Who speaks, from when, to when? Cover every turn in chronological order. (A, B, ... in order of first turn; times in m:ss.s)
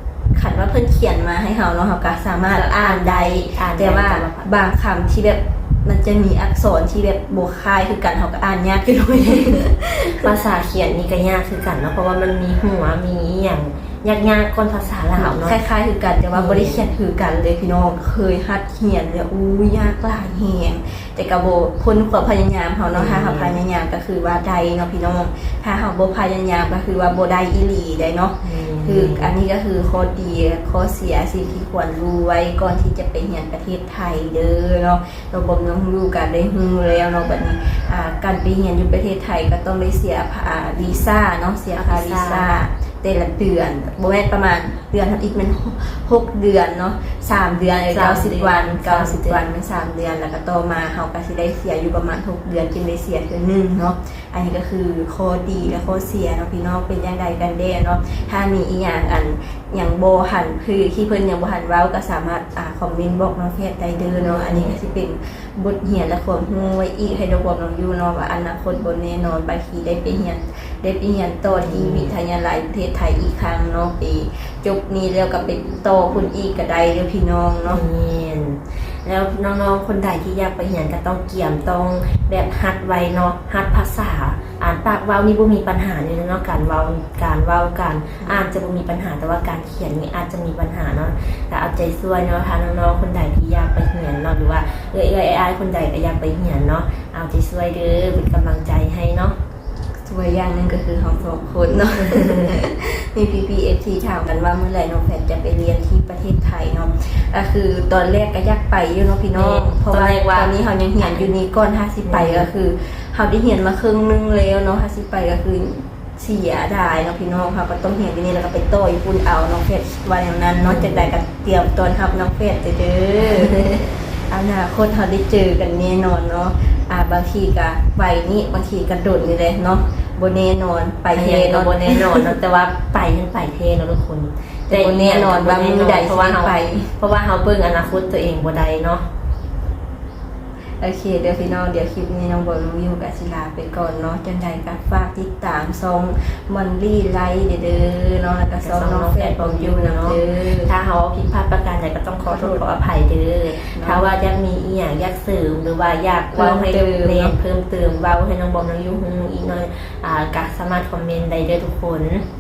0:00.3-0:10.3 A
0:02.4-0:04.5 B
0:10.2-0:15.6 B
0:15.2-1:17.8 A
0:16.3-0:16.9 B
0:22.9-0:23.6 B
0:28.4-0:29.4 B
0:41.7-0:42.5 B
0:47.9-0:49.4 B
1:04.2-1:04.8 B
1:11.5-1:12.1 B
1:17.6-1:39.4 B
1:28.2-1:28.5 A
1:40.0-2:12.3 A
1:49.3-1:51.3 B
1:52.1-1:52.5 B
2:00.6-2:01.1 B
2:11.1-2:19.1 B
2:14.7-2:16.9 A
2:20.8-2:30.7 A
2:28.6-2:42.2 B
2:32.2-2:32.7 A
2:33.6-2:34.1 A
2:36.3-2:37.4 A